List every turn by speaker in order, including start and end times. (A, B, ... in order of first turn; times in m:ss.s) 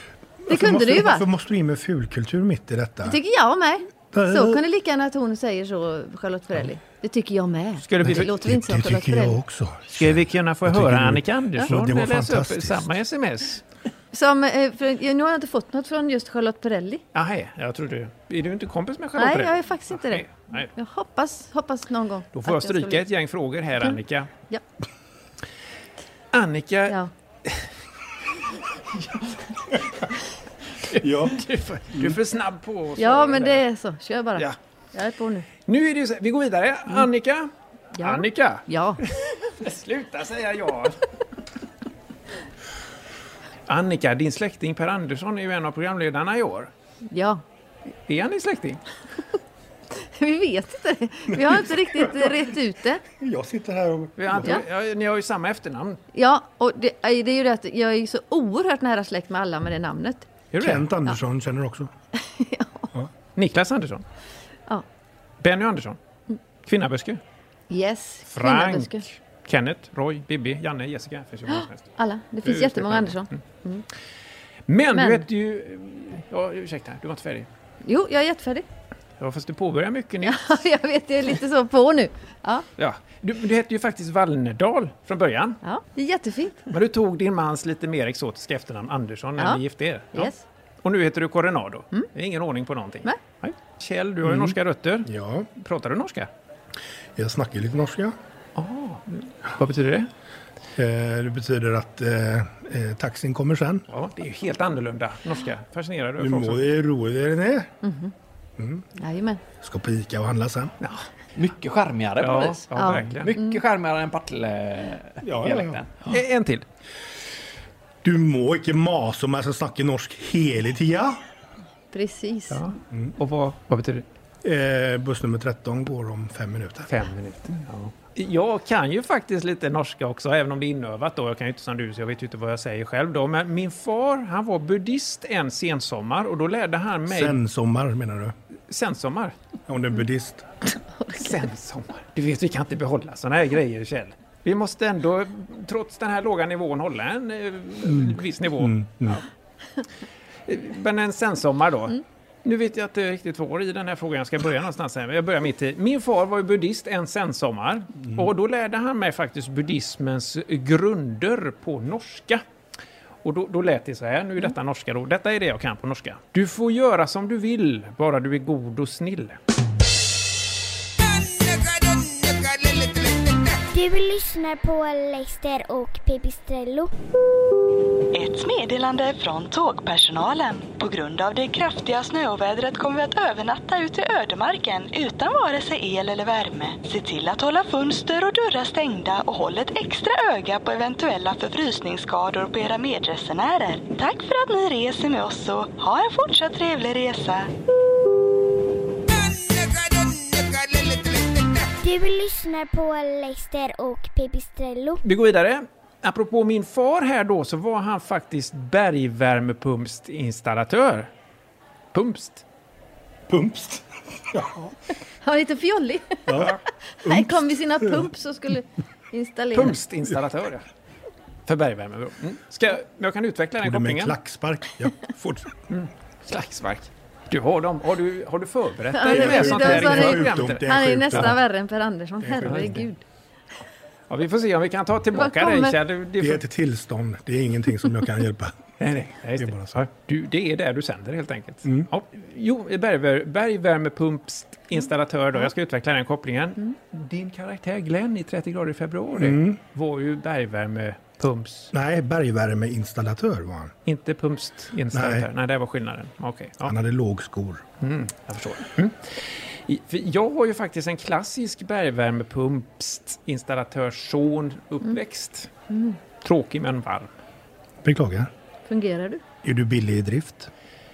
0:00.5-0:03.2 A
0:00.5-0:01.2 B
0:03.0-0:09.4 B
0:04.1-0:04.6 A
0:07.8-0:08.3 C
0:08.0-0:12.9 A
0:10.0-0:13.6 C
0:14.1-0:17.0 B
0:17.1-0:20.7 C
0:19.2-0:23.0 B
0:22.3-0:24.3 C
0:26.3-0:27.6 C
0:30.9-0:33.6 C
0:30.9-0:32.2 A
0:33.0-0:35.5 B
0:35.6-0:38.6 C
0:38.0-0:39.0 B
0:39.6-0:41.0 C
0:43.7-0:46.7 C
0:47.0-0:47.4 B
0:48.1-0:48.8 C
0:49.9-0:53.0 B
0:51.3-0:52.4 A
0:53.2-0:54.6 A
0:54.2-0:56.0 C
0:56.1-1:00.3 B
1:00.5-1:00.9 C
1:00.6-1:01.9 A
1:02.2-1:02.9 B
1:03.4-1:04.0 C
1:05.4-1:06.0 C
1:06.6-1:07.2 C
1:07.7-1:09.0 B
1:08.3-1:11.8 C
1:11.5-1:13.8 B
1:12.4-1:13.4 C
1:14.7-1:17.5 C
1:14.9-1:15.2 B
1:17.8-1:18.6 B
1:19.2-1:20.6 C
1:20.2-1:22.6 B
1:22.8-1:25.6 C
1:25.6-1:26.6 B
1:26.7-1:30.3 C
1:30.1-1:30.4 B
1:30.8-1:36.3 C
1:34.2-1:35.5 A
1:37.2-1:38.1 A
1:38.6-1:40.1 C
1:40.8-1:43.8 A
1:43.9-1:46.6 C
1:46.2-1:47.7 A
1:47.8-1:48.1 B
1:48.6-1:48.8 A
1:49.0-1:49.4 B
1:49.6-1:50.7 A
1:50.8-1:51.0 C
1:51.4-1:56.2 D
1:52.2-1:53.3 C
1:52.8-1:53.6 B
1:55.2-1:55.8 A
1:56.1-1:56.6 C
1:58.0-2:01.2 A
2:01.9-2:02.6 B
2:02.5-2:04.0 C
2:04.4-2:06.9 A
2:06.9-2:17.4 C
2:17.1-2:18.3 A
2:18.7-2:19.3 C
2:19.7-2:20.4 A
2:21.1-2:29.2 C
2:27.8-2:29.2 A
2:30.5-2:42.4 C
2:43.2-2:49.4 C
2:53.7-2:56.9 E
2:58.1-3:17.5 F
3:21.8-3:25.0 E
3:25.0-3:31.1 C
3:31.9-3:32.4 C
3:33.3-3:34.7 A
3:35.2-3:36.5 B
3:36.3-3:38.1 A
3:37.0-3:39.8 B
3:39.5-3:40.6 C
3:41.5-3:44.2 C
3:43.6-3:45.5 A
3:45.7-3:51.3 C
3:48.9-3:53.0 B
3:49.1-3:51.4 A
3:52.2-3:52.7 A
3:52.4-3:52.8 C
3:54.1-3:56.4 C
3:55.1-3:55.8 B
3:56.2-3:58.5 A
3:58.8-4:11.7 C
3:59.4-3:59.8 A
4:09.1-4:09.6 A
4:11.7-4:13.7 A
4:13.8-4:16.7 C
4:14.9-4:15.3 A
4:16.6-4:17.6 A
4:17.8-4:25.5 C
4:25.7-4:26.0 B
4:26.2-4:27.1 C
4:27.8-4:28.3 A
4:28.7-4:29.2 B
4:29.4-4:30.5 A